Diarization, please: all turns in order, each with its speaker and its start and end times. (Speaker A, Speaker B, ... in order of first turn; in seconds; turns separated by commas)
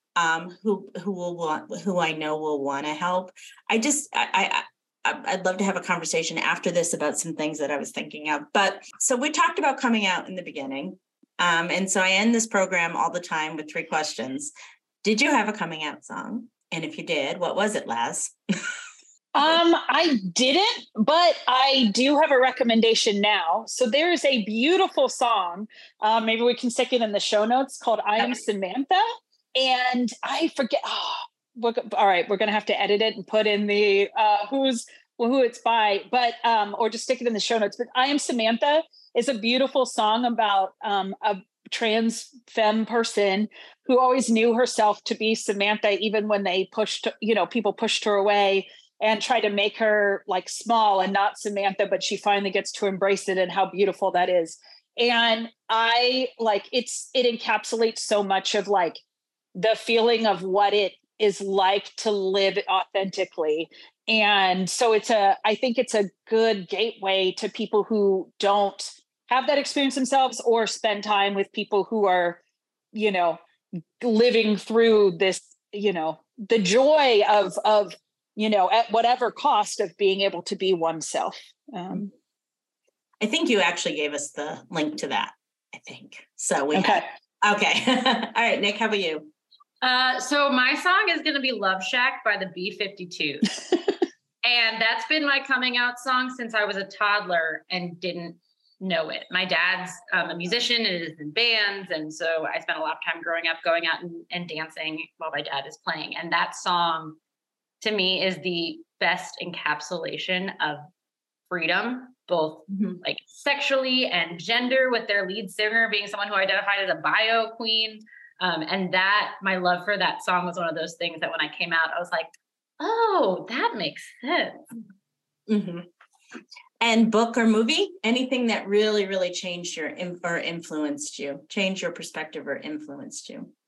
Speaker A: 0.2-18.4, Speaker B: 19.4-59.0, Speaker B: 59.5-72.4, Speaker B: 72.9-73.4, Speaker B: 74.0-82.1, Speaker A: 83.2-89.3, Speaker B: 86.7-87.1, Speaker C: 89.8-93.6, Speaker C: 94.4-107.2, Speaker C: 107.8-110.9, Speaker C: 111.5-124.6, Speaker A: 125.5-125.9, Speaker A: 126.8-133.5